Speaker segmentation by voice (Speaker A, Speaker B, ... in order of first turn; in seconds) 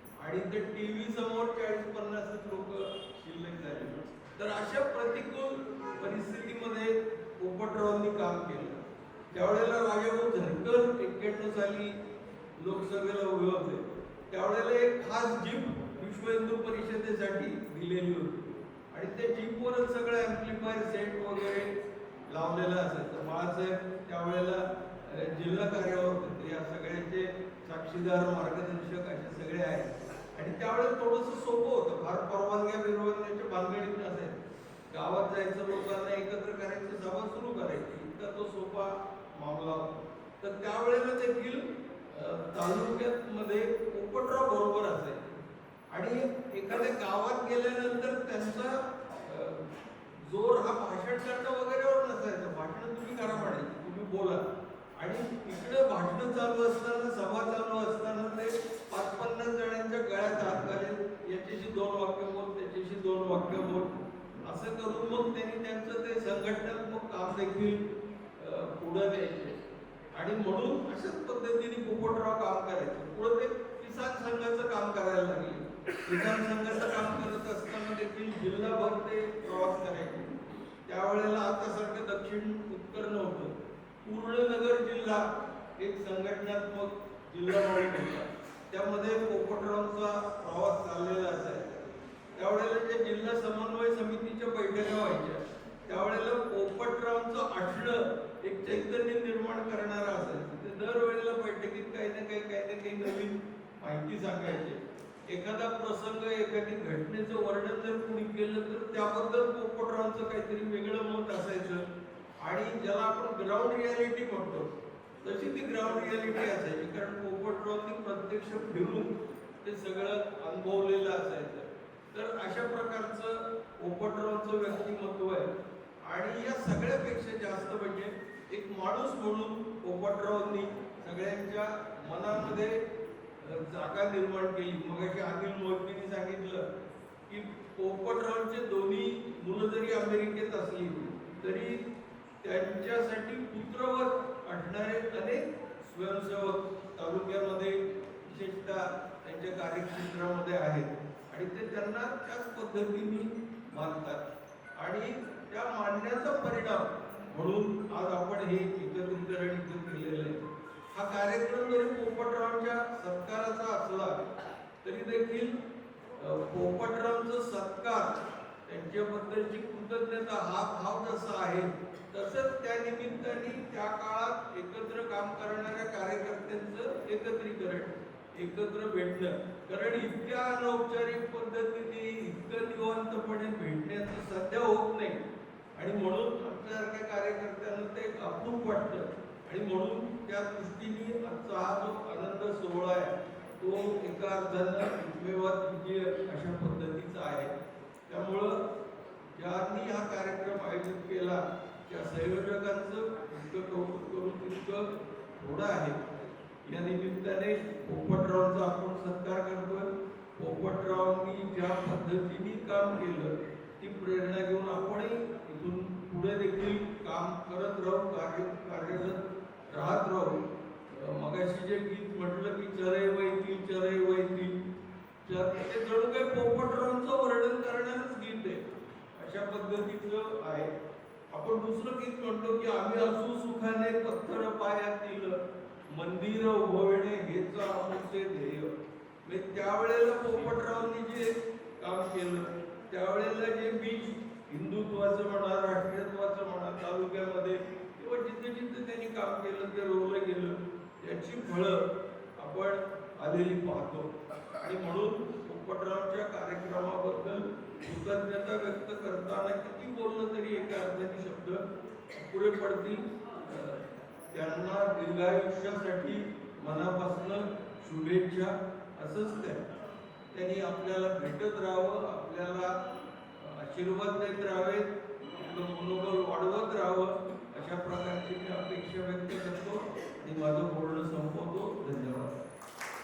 Speaker A: 0.2-8.8, 9.3-12.0, 12.6-21.7, 22.3-34.3, 34.9-39.9, 40.4-45.4, 45.9-49.7, 50.3-54.4, 55.0-63.9, 64.5-67.8, 68.4-69.6, 70.1-80.3, 80.8-83.5, 84.0-85.2, 85.8-91.7, 92.3-111.8, 112.4-114.7, 115.2-125.5, 126.0-132.8, 133.4-136.6, 137.3-141.8, 142.4-154.2, 154.8-160.4, 160.9-164.2, 164.8-165.6, 166.2-185.2, 185.8-197.5, 198.1-198.6, 199.3-206.0, 206.6-220.3, 220.9-224.5, 225.2-228.6, 229.2-230.7, 231.3-235.3, 235.9-238.7, 239.2-251.8, 252.4-254.1, 254.6-269.6, 270.3-272.7, 273.4-282.3